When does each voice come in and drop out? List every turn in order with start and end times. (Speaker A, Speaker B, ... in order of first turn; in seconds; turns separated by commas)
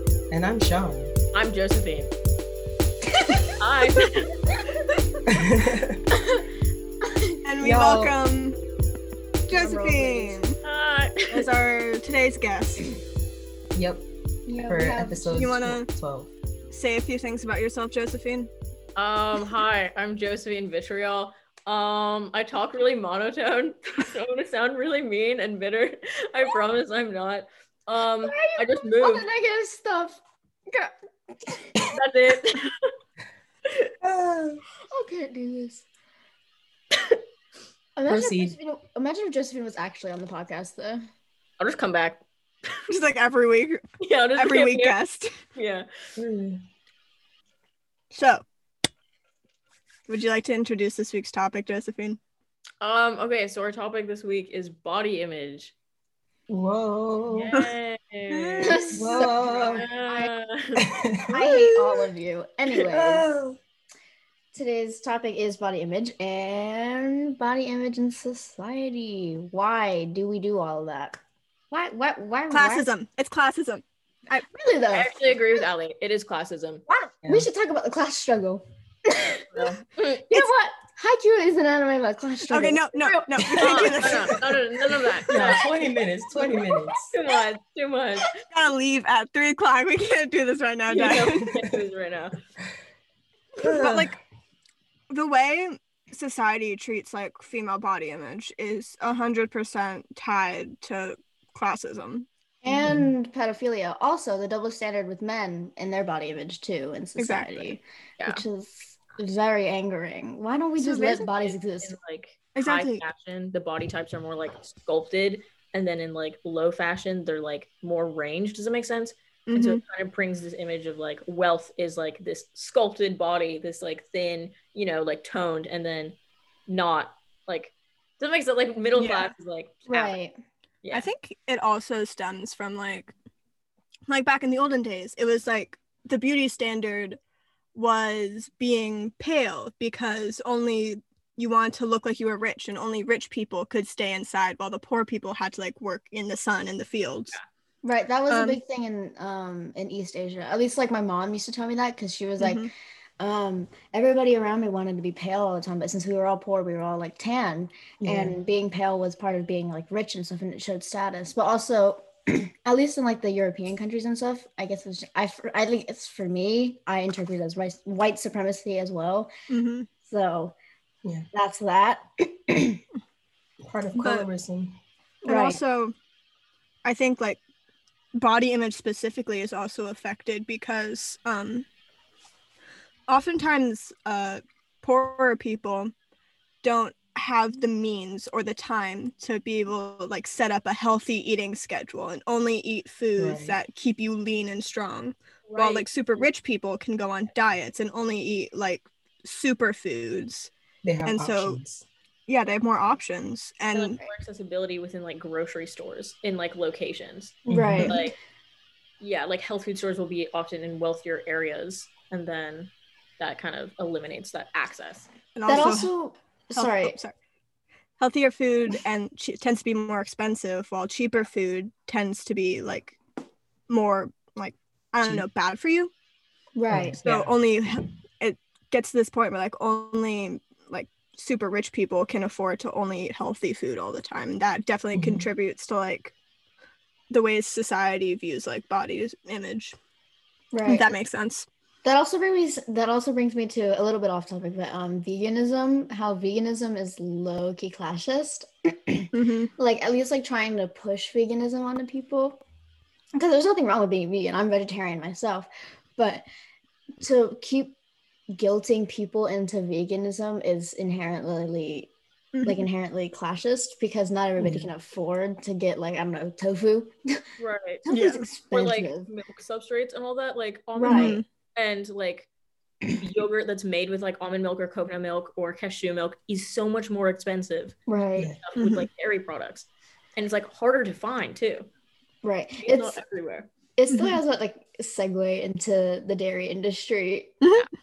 Speaker A: 0.3-1.1, Speaker B: 1.3-2.1, Speaker B: 3.6-4.4, Speaker A: 5.3-6.0, Speaker C: 7.0-7.4, Speaker D: 7.4-8.6, Speaker A: 7.6-8.2, Speaker D: 9.5-10.6, Speaker C: 9.5-10.4, Speaker B: 10.6-11.4, Speaker D: 11.3-12.8, Speaker A: 13.8-14.1, Speaker C: 14.5-15.5, Speaker A: 14.7-16.3, Speaker D: 15.3-15.9, Speaker D: 16.7-18.5, Speaker B: 19.0-29.3, Speaker C: 28.2-30.9, Speaker B: 31.9-32.9, Speaker A: 34.0-34.6, Speaker C: 34.9-35.9, Speaker C: 38.0-41.0, Speaker A: 38.1-38.6, Speaker B: 41.6-42.8, Speaker D: 42.9-43.9, Speaker B: 44.0-45.0, Speaker D: 44.4-45.3, Speaker B: 45.6-45.9, Speaker A: 46.2-46.6, Speaker D: 48.1-48.4, Speaker D: 50.1-52.2, Speaker B: 52.8-55.7, Speaker A: 56.5-57.6, Speaker B: 57.3-58.8, Speaker D: 58.3-59.2, Speaker C: 58.7-60.3, Speaker A: 58.9-59.9, Speaker B: 59.7-60.9, Speaker A: 60.8-61.9, Speaker C: 61.3-63.3, Speaker A: 62.7-63.6, Speaker C: 64.5-71.2, Speaker C: 71.7-72.9, Speaker D: 72.5-74.5, Speaker C: 74.5-75.3, Speaker B: 74.9-76.8, Speaker C: 76.9-79.8, Speaker B: 79.5-80.3, Speaker C: 80.3-84.2, Speaker D: 82.5-84.4, Speaker B: 83.6-85.7, Speaker A: 85.3-87.1, Speaker B: 87.0-88.3, Speaker D: 88.5-91.5, Speaker B: 90.9-92.4, Speaker A: 93.6-94.2, Speaker D: 93.6-94.2, Speaker D: 95.1-102.3, Speaker C: 102.6-112.0, Speaker A: 102.7-103.1, Speaker D: 107.2-107.7, Speaker D: 110.8-111.3, Speaker B: 111.4-126.2, Speaker D: 112.6-113.0, Speaker D: 119.5-119.8, Speaker B: 126.7-130.2, Speaker D: 128.9-129.3, Speaker C: 129.9-130.3, Speaker B: 130.8-131.1, Speaker D: 130.9-133.1, Speaker D: 134.1-137.2, Speaker D: 137.8-147.3, Speaker C: 147.8-152.7, Speaker D: 148.3-148.6, Speaker D: 152.4-152.7, Speaker C: 153.2-169.3, Speaker A: 158.0-158.4, Speaker D: 169.5-169.9, Speaker C: 170.1-170.5, Speaker C: 171.3-172.8, Speaker A: 173.6-174.8, Speaker D: 174.0-174.3, Speaker D: 175.2-175.9, Speaker C: 175.3-175.6, Speaker D: 176.8-177.4, Speaker D: 178.1-181.7, Speaker D: 183.1-185.9, Speaker D: 186.6-200.5, Speaker A: 193.2-193.6, Speaker B: 195.5-195.9, Speaker A: 200.8-201.9, Speaker D: 201.1-201.6, Speaker D: 202.3-204.0, Speaker B: 203.7-208.2, Speaker C: 207.5-208.1, Speaker A: 207.5-208.0, Speaker B: 209.0-215.6, Speaker D: 215.3-215.9, Speaker C: 215.5-217.0, Speaker D: 216.6-217.1, Speaker D: 218.0-223.0, Speaker D: 223.7-225.9, Speaker C: 226.6-227.0, Speaker A: 226.7-227.3, Speaker D: 227.1-236.1, Speaker A: 234.9-235.3, Speaker D: 237.1-239.8, Speaker C: 240.5-240.9, Speaker D: 240.7-241.5, Speaker C: 241.8-252.4, Speaker D: 249.1-249.5, Speaker C: 253.2-256.2, Speaker C: 257.0-257.8, Speaker C: 258.3-261.9, Speaker D: 262.3-262.7, Speaker C: 262.4-267.2, Speaker A: 264.4-264.7, Speaker B: 267.4-267.9, Speaker C: 267.9-269.1, Speaker D: 267.9-268.3, Speaker B: 268.5-272.3, Speaker C: 270.8-271.2, Speaker D: 270.9-271.2, Speaker B: 273.0-277.8, Speaker C: 277.9-278.3, Speaker B: 278.4-281.7, Speaker D: 278.6-278.9, Speaker C: 282.2-283.0, Speaker B: 282.6-283.5, Speaker C: 283.8-287.4, Speaker D: 283.9-284.2